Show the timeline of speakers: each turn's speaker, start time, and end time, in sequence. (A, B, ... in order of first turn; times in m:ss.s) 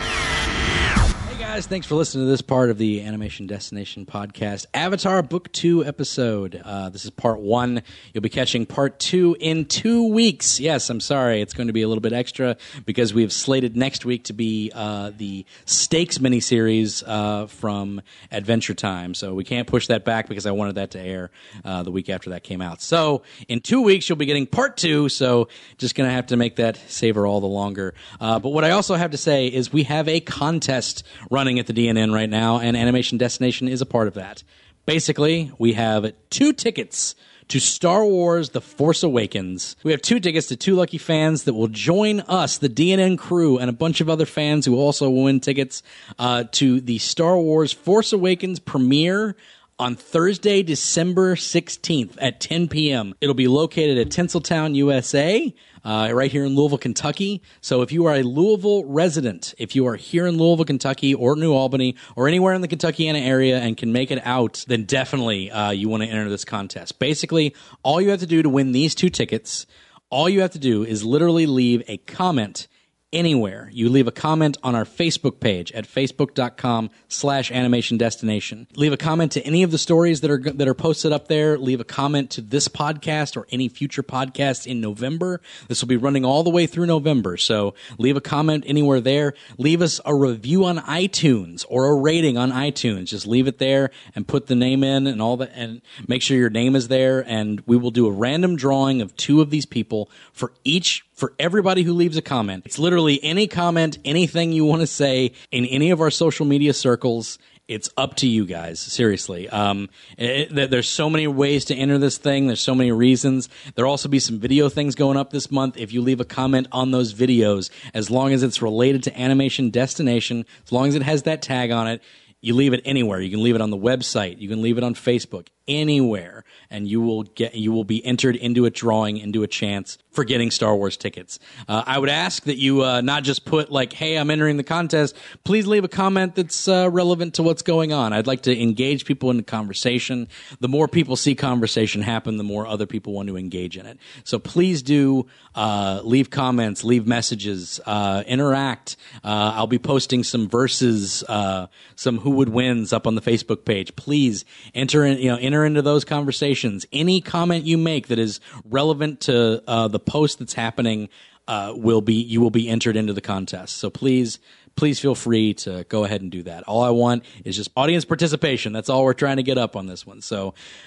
0:01.2-2:50.6 A